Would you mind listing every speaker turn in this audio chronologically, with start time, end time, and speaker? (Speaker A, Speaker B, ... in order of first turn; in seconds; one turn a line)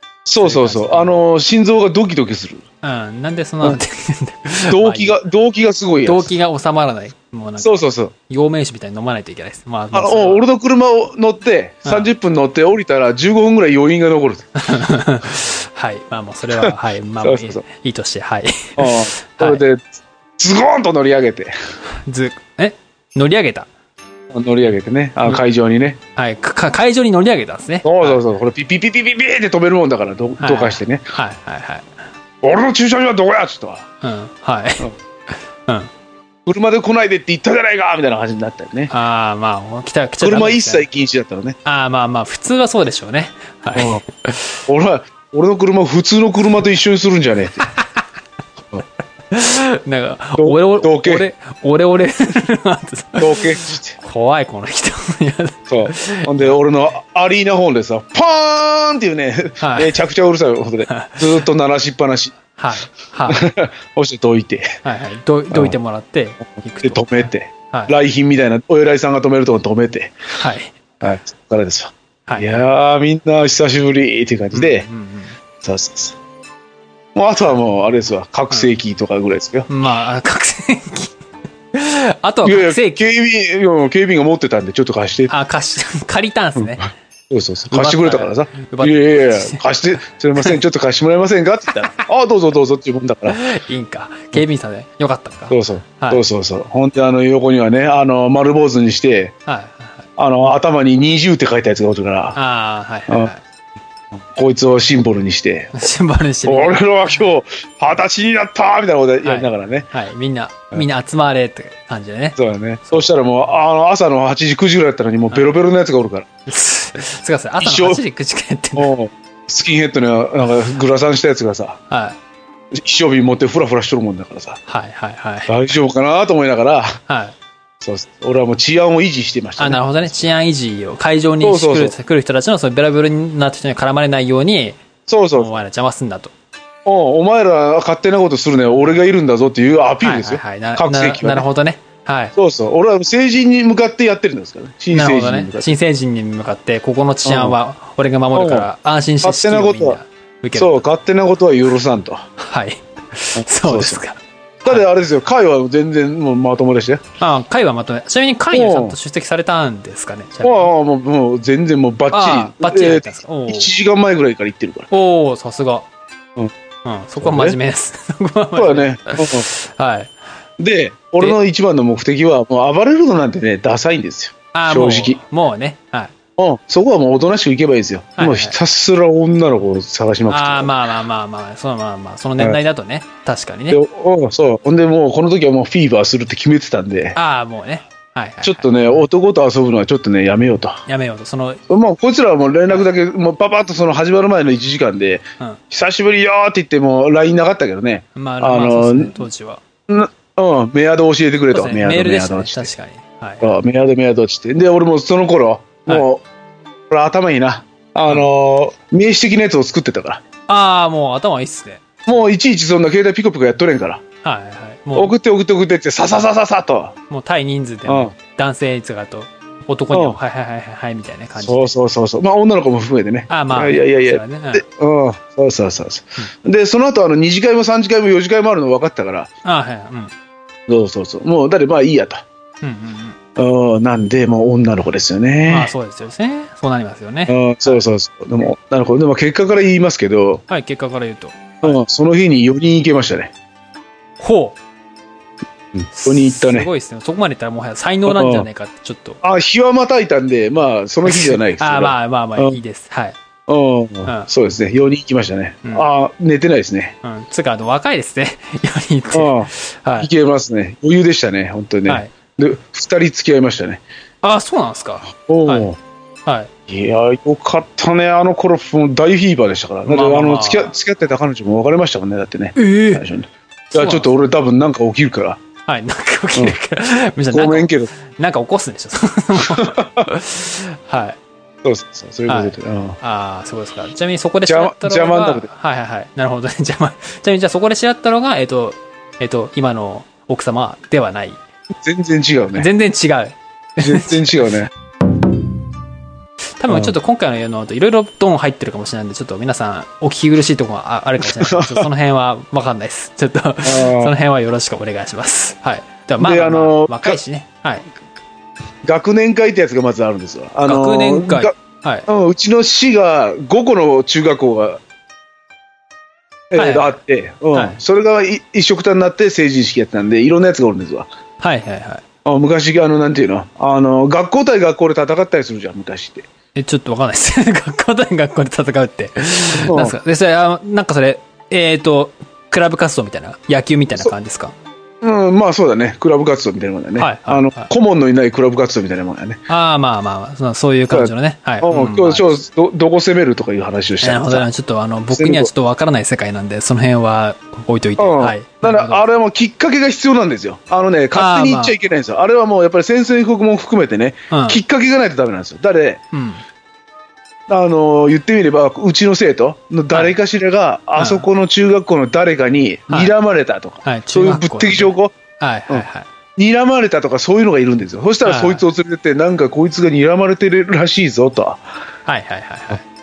Speaker A: 0.2-2.6
Speaker B: 0.4-1.2
Speaker B: 2.8-5.2
Speaker A: 4.7-6.3
Speaker B: 6.0-10.4
Speaker A: 7.6-8.1
Speaker A: 9.9-14.5
Speaker B: 14.6-19.6
Speaker A: 16.6-17.6
Speaker A: 18.8-19.8
Speaker A: 20.4-21.5
Speaker B: 22.0-23.7
Speaker A: 24.3-26.0
Speaker B: 26.1-28.2
Speaker A: 27.8-31.0
Speaker B: 30.4-31.9
Speaker A: 32.4-33.9
Speaker B: 34.0-34.9
Speaker A: 36.5-38.9
Speaker B: 38.9-40.9
Speaker A: 40.2-41.6
Speaker B: 41.6-44.5
Speaker A: 43.7-44.0
Speaker A: 44.7-47.6
Speaker B: 49.3-56.5
Speaker A: 50.4-51.3
Speaker A: 53.2-54.0
Speaker A: 55.7-62.4
Speaker B: 59.6-60.0
Speaker B: 60.9-61.3
Speaker B: 62.5-63.5
Speaker A: 63.3-64.8
Speaker B: 64.8-67.9
Speaker A: 66.8-70.1
Speaker B: 70.3-70.8
Speaker A: 71.0-74.9
Speaker B: 72.3-72.6
Speaker B: 74.5-75.4
Speaker A: 75.6-76.2
Speaker A: 77.1-79.7
Speaker B: 79.7-81.2
Speaker B: 81.7-83.0
Speaker A: 82.4-85.3
Speaker B: 85.3-86.9
Speaker A: 86.6-93.4
Speaker B: 87.7-89.6
Speaker B: 93.3-96.2
Speaker A: 95.5-99.3
Speaker B: 99.5-100.1
Speaker A: 100.2-102.4
Speaker B: 102.3-103.4
Speaker A: 104.1-105.9
Speaker B: 105.7-106.8
Speaker A: 106.4-109.9
Speaker B: 109.2-113.1
Speaker A: 112.4-116.3
Speaker B: 116.5-118.9
Speaker A: 117.6-118.0
Speaker A: 118.8-121.8
Speaker B: 121.9-122.2
Speaker A: 122.7-124.6
Speaker B: 124.7-125.6
Speaker A: 125.5-127.0
Speaker B: 127.1-127.3
Speaker A: 127.8-130.3
Speaker B: 129.6-134.8
Speaker A: 131.4-131.9
Speaker A: 135.1-135.6
Speaker B: 135.3-136.3
Speaker A: 136.8-141.5
Speaker B: 140.0-142.3
Speaker A: 142.3-145.7
Speaker B: 144.9-150.8
Speaker A: 147.2-147.6
Speaker A: 148.3-148.7
Speaker A: 149.2-150.0
Speaker A: 150.6-152.2
Speaker B: 152.4-154.8
Speaker A: 153.4-154.0
Speaker A: 154.6-157.0
Speaker B: 157.2-160.7
Speaker A: 158.5-158.9
Speaker A: 160.4-164.9
Speaker B: 162.1-163.7
Speaker B: 164.9-165.8
Speaker B: 166.8-170.1
Speaker A: 167.2-167.6
Speaker A: 168.5-169.5
Speaker A: 170.6-175.2
Speaker B: 174.5-176.1
Speaker A: 176.4-180.7
Speaker B: 178.2-178.6
Speaker B: 180.3-183.8
Speaker A: 183.7-187.2
Speaker B: 187.1-189.1
Speaker A: 188.4-190.8
Speaker B: 190.9-191.6
Speaker A: 191.7-199.2
Speaker B: 198.2-199.6
Speaker A: 199.9-202.7
Speaker B: 201.5-203.6
Speaker A: 203.4-206.2
Speaker A: 206.9-210.2
Speaker B: 210.5-212.3
Speaker A: 212.1-214.0
Speaker B: 214.2-215.1
Speaker A: 214.9-216.9
Speaker B: 217.1-221.7
Speaker A: 217.8-218.1
Speaker A: 219.9-220.2
Speaker A: 221.4-229.3
Speaker B: 223.3-224.6
Speaker B: 229.4-230.1
Speaker A: 230.7-232.2
Speaker B: 232.6-233.2
Speaker A: 233.3-235.7
Speaker B: 235.5-237.8
Speaker A: 237.3-240.4
Speaker B: 240.5-241.8
Speaker A: 241.6-243.3
Speaker B: 244.2-244.6
Speaker A: 245.7-246.7
Speaker B: 245.9-249.2
Speaker A: 248.1-248.5
Speaker A: 249.2-252.6
Speaker B: 251.0-253.2
Speaker A: 253.5-256.9
Speaker B: 257.0-260.1
Speaker A: 259.1-263.8
Speaker B: 261.9-262.1
Speaker B: 264.2-265.7
Speaker A: 265.1-265.8
Speaker A: 266.7-275.4
Speaker B: 269.8-270.7
Speaker B: 272.6-273.0
Speaker B: 273.7-274.2
Speaker B: 275.6-281.2
Speaker A: 277.3-277.9
Speaker A: 279.4-280.1
Speaker A: 281.6-283.0
Speaker B: 282.3-291.4
Speaker A: 284.5-285.5
Speaker A: 291.8-292.7
Speaker B: 292.6-294.5
Speaker A: 293.8-294.7
Speaker B: 296.6-307.9
Speaker A: 296.7-296.9
Speaker A: 301.2-301.9
Speaker A: 303.6-304.1
Speaker A: 306.2-307.2
Speaker A: 308.8-311.5
Speaker B: 310.6-312.1
Speaker A: 312.1-314.8
Speaker A: 316.5-321.1
Speaker B: 316.6-316.9
Speaker B: 321.4-322.0
Speaker A: 322.2-326.3
Speaker B: 326.5-334.5
Speaker A: 329.5-329.9
Speaker A: 335.0-339.4
Speaker B: 337.0-337.7
Speaker B: 339.5-342.4
Speaker A: 340.9-344.5
Speaker B: 344.0-349.0
Speaker A: 345.1-345.5
Speaker A: 348.0-356.0
Speaker B: 351.1-351.8
Speaker B: 354.3-354.6
Speaker B: 356.1-356.4
Speaker A: 357.5-365.1
Speaker B: 359.9-360.1
Speaker B: 361.0-361.3
Speaker B: 363.8-366.1
Speaker A: 365.7-371.6
Speaker B: 368.2-368.6
Speaker B: 372.1-372.8